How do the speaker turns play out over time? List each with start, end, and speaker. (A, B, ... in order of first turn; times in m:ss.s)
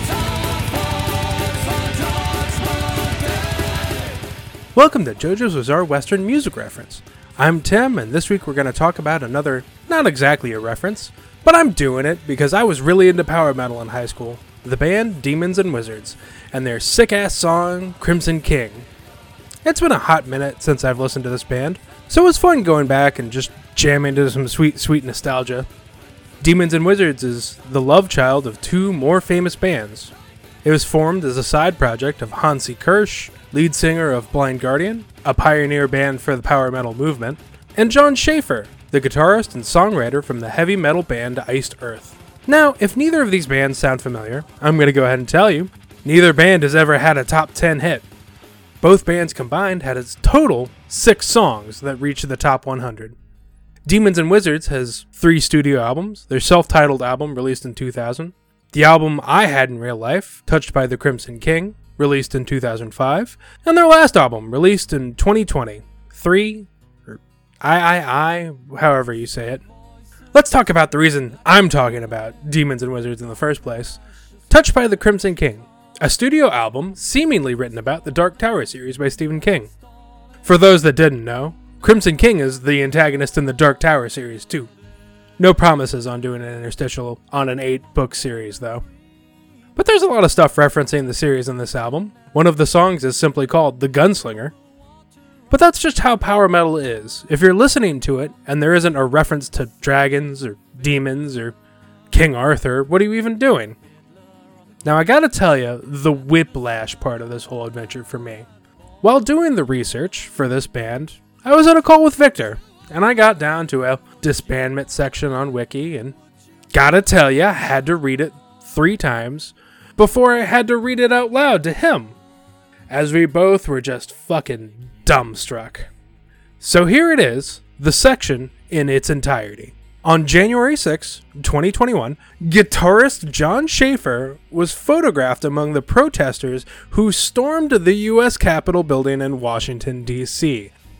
0:04.8-0:18.9 A
0:19.6-0:25.7 A
0:26.4-0:30.1 A
0:30.6-0:48.1 A
0:48.8-0:53.2 A
0:53.9-1:09.6 A
1:10.3-1:19.7 A
1:20.4-1:24.7 A
1:25.4-1:28.8 A
1:29.8-1:34.5 A
1:35.5-1:41.6 A
1:42.1-1:43.8 A
1:44.8-1:48.5 A
1:49.0-1:56.2 A
1:56.7-2:02.2 A
2:02.9-2:05.9 A
2:06.6-2:20.7 A